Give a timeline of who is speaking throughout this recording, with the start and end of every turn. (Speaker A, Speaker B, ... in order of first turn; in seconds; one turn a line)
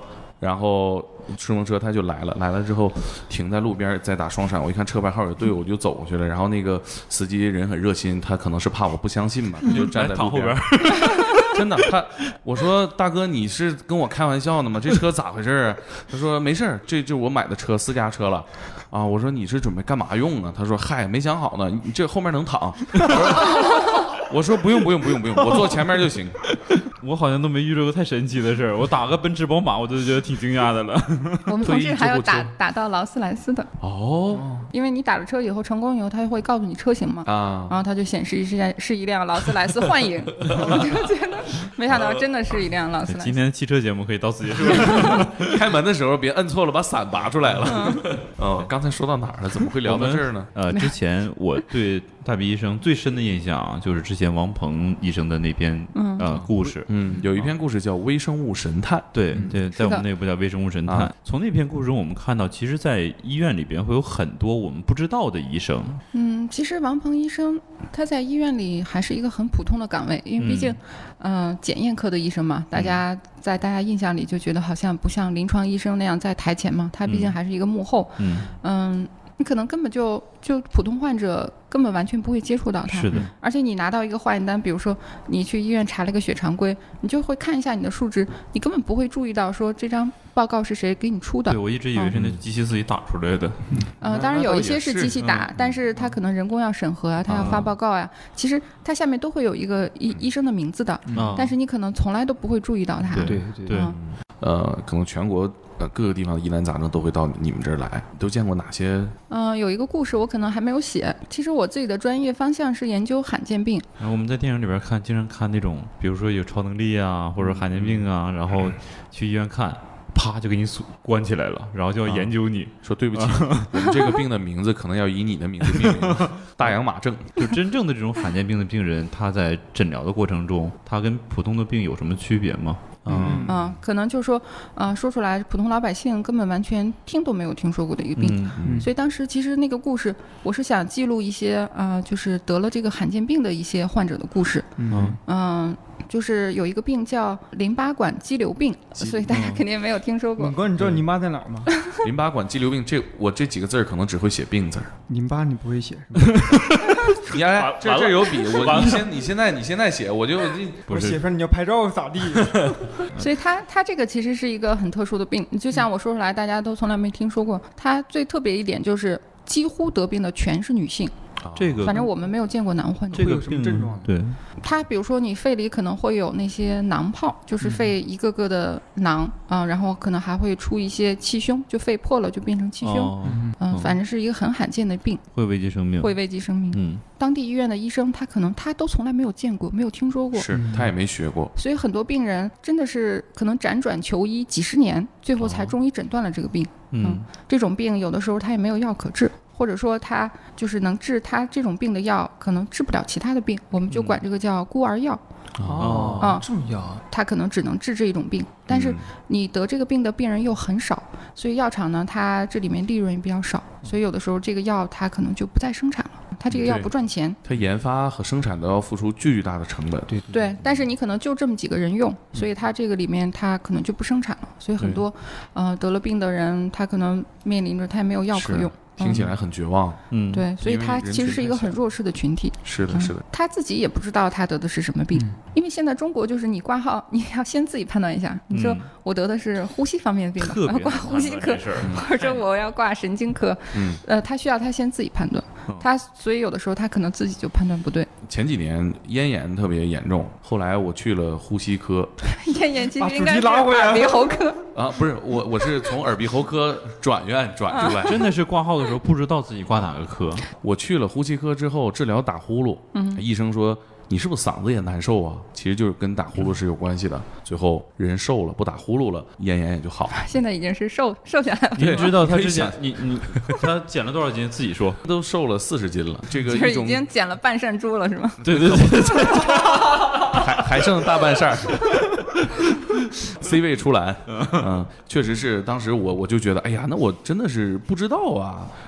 Speaker A: 0.4-26.4
Speaker B: 9.7-11.9
Speaker B: 26.6-31.6
Speaker C: 31.5-33.7
Speaker A: 31.6-32.5
Speaker A: 33.8-34.5
Speaker D: 34.3-34.7
Speaker C: 34.7-43.4
Speaker A: 37.2-37.8
Speaker B: 43.1-45.6
Speaker C: 44.7-45.2
Speaker A: 44.8-50.5
Speaker C: 47.7-48.1
Speaker B: 49.8-56.9
Speaker C: 55.9-56.3
Speaker A: 56.9-59.4
Speaker B: 59.1-66.0
Speaker C: 59.7-60.0
Speaker A: 60.9-61.1
Speaker C: 66.1-92.2
Speaker B: 70.4-70.8
Speaker B: 77.1-77.3
Speaker B: 78.2-78.5
Speaker B: 82.9-83.3
Speaker B: 91.5-93.8
Speaker A: 92.1-92.4
Speaker D: 93.8-94.2
Speaker C: 94.0-104.0
Speaker A: 94.1-95.8
Speaker B: 95.2-95.5
Speaker A: 97.3-97.7
Speaker B: 97.3-97.7
Speaker D: 101.1-101.5
Speaker B: 101.1-101.5
Speaker B: 103.1-104.0
Speaker D: 103.2-103.8
Speaker A: 104.4-109.2
Speaker C: 109.3-113.9
Speaker B: 114.0-123.9
Speaker A: 117.4-118.0
Speaker A: 122.0-127.4
Speaker B: 125.7-126.3
Speaker B: 127.4-133.5
Speaker A: 133.1-133.7
Speaker D: 133.1-133.5
Speaker C: 133.5-150.6
Speaker B: 138.2-138.6
Speaker A: 138.6-138.9
Speaker D: 138.6-138.9
Speaker D: 144.8-145.2
Speaker B: 144.9-145.2
Speaker A: 149.0-149.3
Speaker B: 149.3-149.6
Speaker D: 150.4-151.7
Speaker C: 151.7-152.0
Speaker A: 152.0-154.9
Speaker D: 155.1-156.7
Speaker B: 156.3-159.1
Speaker A: 157.2-161.0
Speaker B: 160.9-161.2
Speaker D: 160.9-163.0
Speaker C: 163.1-171.1
Speaker A: 171.4-171.9
Speaker B: 171.6-172.1
Speaker C: 171.8-173.4
Speaker D: 173.1-174.2
Speaker B: 173.1-174.4
Speaker C: 174.6-185.2
Speaker D: 177.6-177.9
Speaker B: 182.8-184.0
Speaker D: 183.2-183.6
Speaker B: 185.3-186.2
Speaker C: 186.0-190.5
Speaker B: 186.7-187.0
Speaker A: 190.3-191.5
Speaker D: 190.5-190.9
Speaker C: 191.6-205.2
Speaker A: 195.4-195.7
Speaker B: 196.9-197.2
Speaker B: 203.9-204.2
Speaker A: 205.6-206.1
Speaker D: 205.6-207.0
Speaker B: 205.8-206.4
Speaker C: 206.2-206.5
Speaker C: 207.1-217.4
Speaker A: 208.7-209.1
Speaker A: 216.5-216.9
Speaker A: 217.4-220.1
Speaker D: 220.1-220.3
Speaker C: 220.3-229.3
Speaker A: 224.8-225.0
Speaker A: 228.3-230.0
Speaker B: 230.1-230.5
Speaker C: 230.3-248.1
Speaker A: 230.6-231.8
Speaker A: 232.7-233.2
Speaker B: 238.5-238.9
Speaker B: 240.4-242.4
Speaker A: 243.7-244.0
Speaker A: 248.2-252.1
Speaker C: 252.2-254.7
Speaker D: 253.0-254.4
Speaker A: 254.7-258.3
Speaker C: 257.7-258.0
Speaker B: 257.9-260.4
Speaker A: 260.6-270.2
Speaker C: 262.9-263.2
Speaker C: 270.1-272.2
Speaker B: 271.8-275.0
Speaker A: 271.8-273.6
Speaker A: 275.0-277.1
Speaker C: 276.4-278.5
Speaker B: 278.4-280.3
Speaker A: 278.5-278.8
Speaker A: 280.2-282.1
Speaker A: 283.3-288.7
Speaker B: 284.4-284.6